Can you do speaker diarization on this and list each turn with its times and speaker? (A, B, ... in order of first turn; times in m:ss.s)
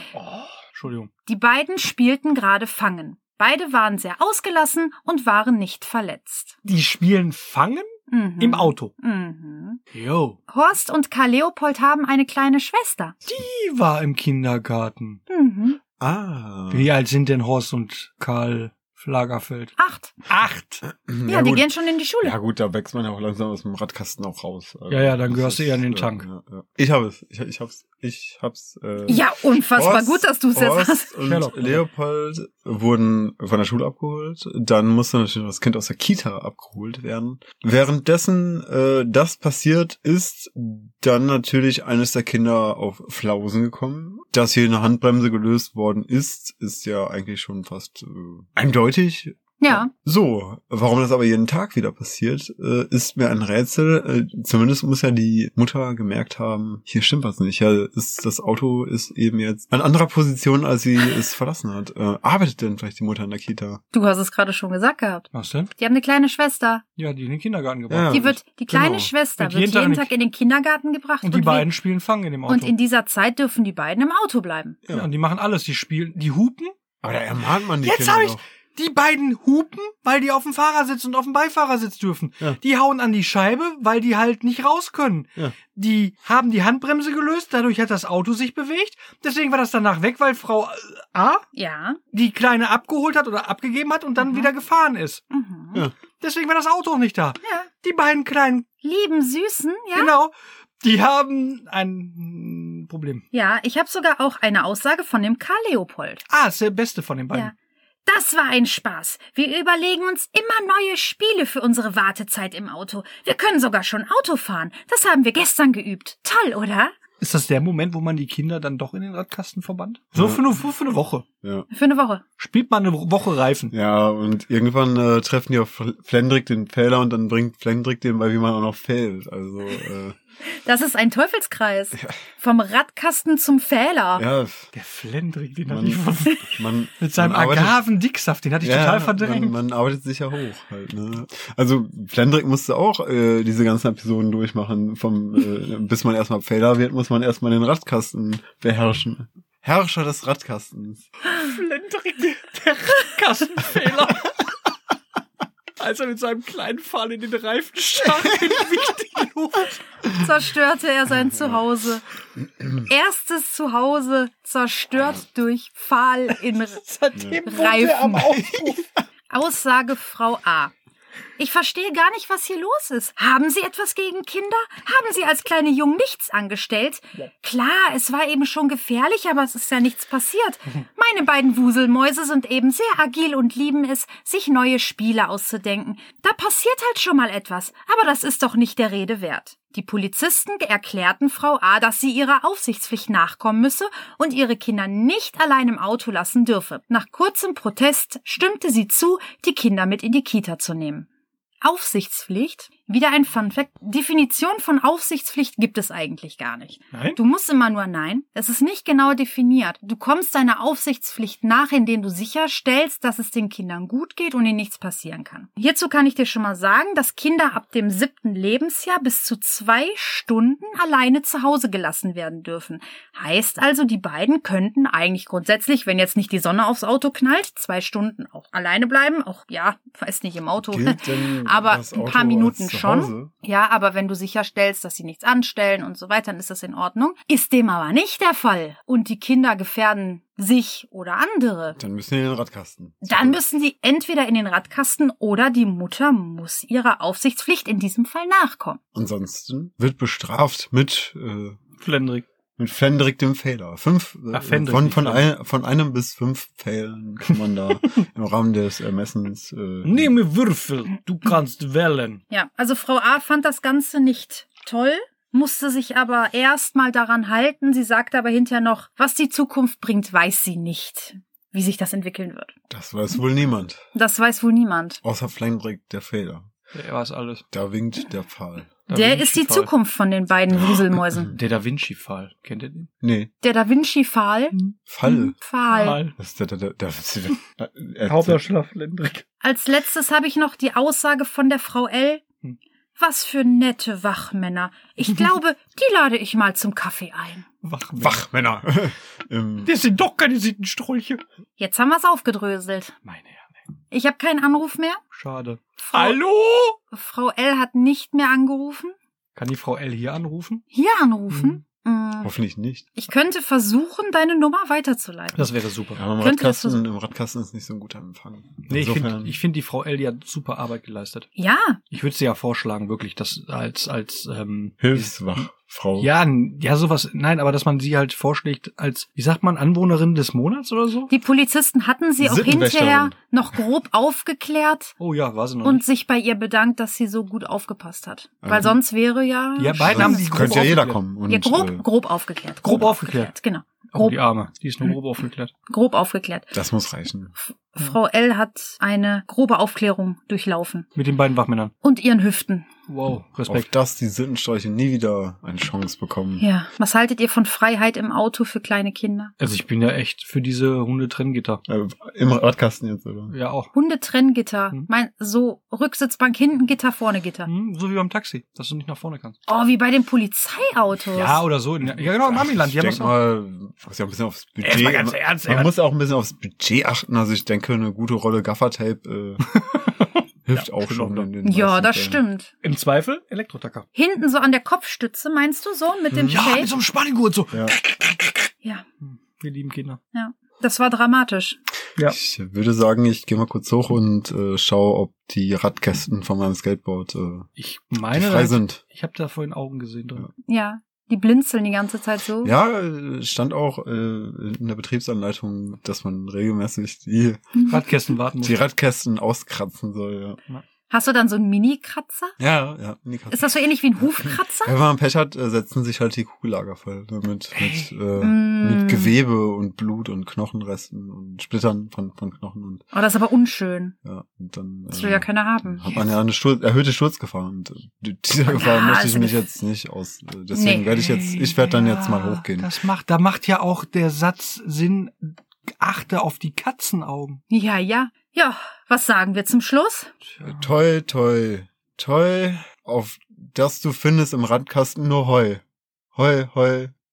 0:00.1-0:01.1 A
0:01.2-0:06.6 B
0:06.6-0:08.9 A
0:08.1-0:09.8 B
0:09.9-0:10.4 A
0:10.5-0:13.2 B
0:13.2-0:15.2 A
0:15.3-0:15.8 B
0:16.0-0:16.9 C
0:16.7-0:19.7 A
0:19.8-0:20.1 B
0:20.3-0:20.8 A
0:20.8-0:21.7 C
0:21.3-0:22.4 B
0:22.2-1:03.8 C
0:24.9-0:26.3 A
0:29.1-0:31.1 B
0:31.2-0:31.8 A
0:49.6-0:49.9 B
1:03.9-1:06.8 B
1:05.3-1:05.7 A
1:07.0-1:08.2 A
1:07.9-1:09.1 C
1:08.1-1:11.7 B
1:09.4-1:10.1 A
1:11.2-1:12.7 A
1:12.5-1:14.8 B
1:14.9-1:16.7 A
1:17.0-1:18.4 C
1:17.8-1:31.4 A
1:31.5-1:32.0 B
1:32.1-1:35.2 A
1:34.2-1:34.5 B
1:35.3-1:35.8 B
1:36.2-1:38.6 A
1:37.4-1:37.7 B
1:38.8-1:40.1 B
1:39.9-1:43.2 A
1:43.3-1:46.2 B
1:46.3-1:47.5 A
1:48.0-1:56.9 B
1:57.2-2:01.2 A
2:00.1-2:00.4 C
2:01.7-2:02.2 B
2:02.4-2:03.7 A
2:03.7-2:10.2 C
2:10.5-2:14.2 B
2:14.2-2:14.7 C
2:14.7-2:19.6 A
2:15.7-2:17.8 C
2:18.6-2:31.1 C
2:31.3-2:34.5 A
2:35.8-2:39.8 A
2:38.2-2:38.6 C
2:40.1-2:42.0 B
2:41.3-2:41.6 C
2:42.6-2:42.8 C
2:42.8-2:46.8 B
2:46.7-2:48.9 A
2:47.2-2:47.4 C
2:47.3-2:48.4 B
2:48.4-2:48.7 C
2:49.3-2:50.7 B
2:51.4-3:21.1 B
3:21.6-4:01.8 B
3:26.9-3:27.2 A
3:50.6-3:53.3 C
4:01.8-4:03.4 C
4:03.0-4:08.8 B
4:08.9-4:11.6 C
4:11.8-4:12.2 A
4:12.6-4:20.1 C
4:14.3-4:15.2 A
4:19.8-4:22.2 A
4:22.3-4:32.5 B
4:32.7-4:33.8 C
4:33.9-4:35.0 B
4:35.0-4:36.5 C
4:36.7-4:37.4 A
4:37.5-4:38.7 C
4:38.9-4:39.7 A
4:38.9-4:41.3 B
4:40.5-4:41.4 C
4:41.3-4:42.9 A
4:43.0-4:43.3 C
4:43.4-4:46.0 B
4:44.9-4:45.3 C
4:45.7-4:46.1 A
4:46.1-4:48.4 C
4:48.0-4:49.2 A
4:49.4-4:52.2 B
4:53.0-4:57.4 B
4:57.6-4:58.2 A
4:58.0-4:59.7 C
4:59.6-5:01.2 A
5:01.6-5:03.0 B
5:03.0-5:03.6 A
5:03.9-5:05.0 B
5:05.1-5:06.8 A
5:05.8-5:06.2 B
5:06.9-5:09.0 B
5:09.4-5:10.6 A
5:10.7-5:12.3 B
5:11.3-5:11.6 A
5:12.2-5:12.8 C
5:12.9-5:15.5 B
5:15.4-5:16.0 A
5:15.9-5:19.3 C
5:16.2-5:16.8 B
5:18.7-5:21.3 A
5:21.4-5:21.8 B
5:21.9-5:25.4 A
5:24.8-5:26.1 C
5:26.0-5:31.1 A
5:31.1-5:34.9 B
5:32.2-5:33.1 C
5:35.0-5:35.8 A
5:35.6-5:40.6 B
5:38.4-5:38.8 C
5:39.6-5:41.0 A
5:39.8-5:41.8 C
5:41.3-5:44.2 B
5:42.6-5:43.3 A
5:43.9-5:45.5 A
5:45.7-5:46.5 B
5:46.5-5:47.3 C
5:47.5-5:50.9 B
5:50.9-5:51.7 A
5:51.8-5:52.7 B
5:52.9-5:53.7 A
5:53.4-5:56.4 C
5:56.4-5:59.3 B
5:59.4-6:01.6 A
6:01.7-6:03.3 C
6:03.3-6:03.7 A
6:03.7-6:07.5 B
6:07.4-6:09.4 A
6:09.5-6:11.4 B
6:11.1-6:13.1 A
6:11.8-6:19.4 C
6:14.6-6:15.7 A
6:19.4-6:21.3 A
6:20.4-6:22.2 C
6:21.4-6:22.5 B
6:22.6-6:23.9 A
6:23.9-6:26.7 B
6:26.1-6:26.4 C
6:26.3-6:30.0 A
6:30.1-6:31.6 B
6:32.0-6:37.5 C
6:37.6-6:40.3 A
6:38.1-6:38.8 C
6:40.4-6:42.5 B
6:42.4-6:47.6 C
6:47.7-6:48.6 A
6:48.4-6:50.4 C
6:50.9-6:52.3 B
6:52.4-7:02.8 C
6:53.3-6:54.7 B
6:57.5-6:57.9 A
6:58.2-6:59.1 B
7:02.9-7:03.9 B
7:04.0-7:12.7 C
7:04.9-7:05.8 B
7:08.5-7:09.4 B
7:10.5-7:10.9 B
7:10.9-7:17.4 A
7:17.5-7:20.1 B
7:20.2-7:20.7 A
7:20.4-7:25.6 C
7:26.1-7:26.9 C